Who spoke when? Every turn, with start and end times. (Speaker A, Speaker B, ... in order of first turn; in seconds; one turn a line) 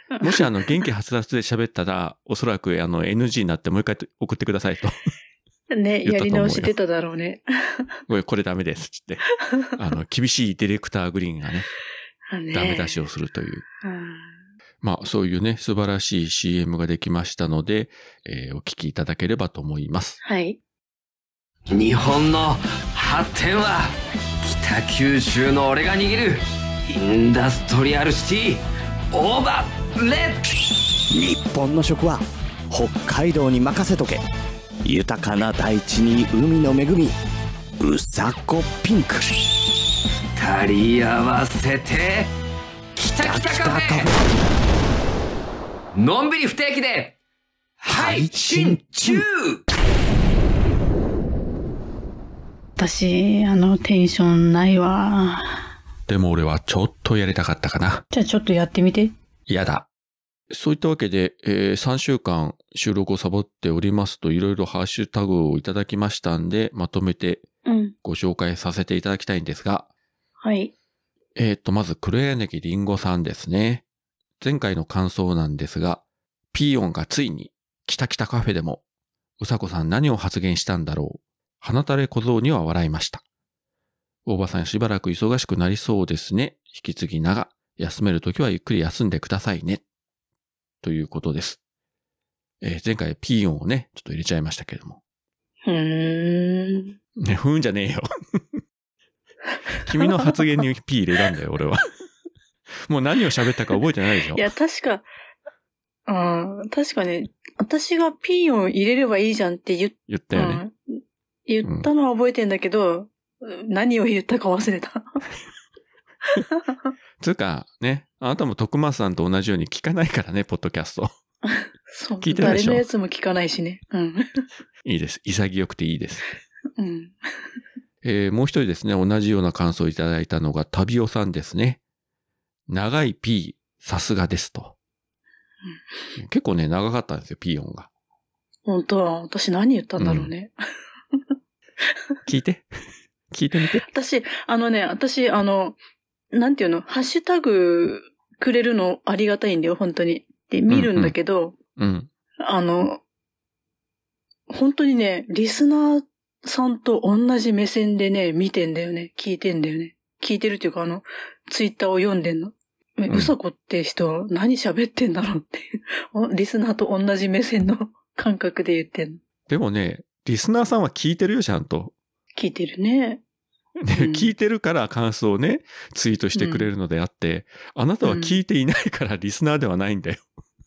Speaker A: 0.1-0.8
Speaker B: 0.2-5.0
Speaker A: 5.7-7.9
Speaker B: 6.0-6.7
Speaker B: 8.1-11.7
Speaker A: 12.3-13.0
Speaker B: 12.5-13.7
Speaker A: 13.8-14.3
Speaker B: 14.8-20.2
Speaker A: 20.2-20.6
Speaker C: 21.7-30.6
Speaker D: 31.1-34.2
Speaker D: 34.9-37.2
Speaker D: 37.8-39.3
Speaker C: 40.4-42.3
Speaker C: 43.0-44.1
Speaker D: 43.2-44.2
Speaker C: 45.9-47.1
Speaker C: 47.8-49.6
Speaker D: 47.9-49.2
Speaker A: 52.8-55.6
Speaker B: 56.1-58.0
Speaker A: 58.1-59.1
Speaker B: 59.5-59.9
Speaker B: 60.5-67.5
Speaker A: 67.7-68.0
Speaker B: 68.0-69.9
Speaker A: 70.4-70.7
Speaker B: 71.4-73.8
Speaker B: 74.4-78.8
Speaker B: 79.4-83.2
Speaker B: 84.2-89.8
Speaker B: 90.8-91.6
Speaker B: 92.6-95.0
Speaker A: 95.7-97.0
Speaker B: 97.2-98.1
Speaker B: 99.8-101.8
Speaker B: 102.9-104.4
Speaker A: 104.3-105.1
Speaker A: 106.1-110.8
Speaker B: 110.1-110.6
Speaker A: 111.5-115.2
Speaker B: 117.2-121.1
Speaker A: 121.5-124.5
Speaker B: 122.2-122.9
Speaker B: 124.8-126.3
Speaker A: 126.8-127.2
Speaker B: 128.0-131.8
Speaker B: 132.7-134.8
Speaker B: 136.2-137.9
Speaker A: 138.7-140.5
Speaker B: 140.0-140.3
Speaker B: 142.2-142.7
Speaker B: 143.3-143.8
Speaker A: 143.8-145.8
Speaker A: 146.3-151.6
Speaker B: 150.7-151.2
Speaker B: 151.8-152.1
Speaker A: 152.4-153.0
Speaker A: 154.5-169.2
Speaker B: 169.5-171.9
Speaker A: 172.3-173.2
Speaker B: 173.8-180.2
Speaker A: 173.9-174.3
Speaker A: 176.3-176.7
Speaker A: 178.0-178.4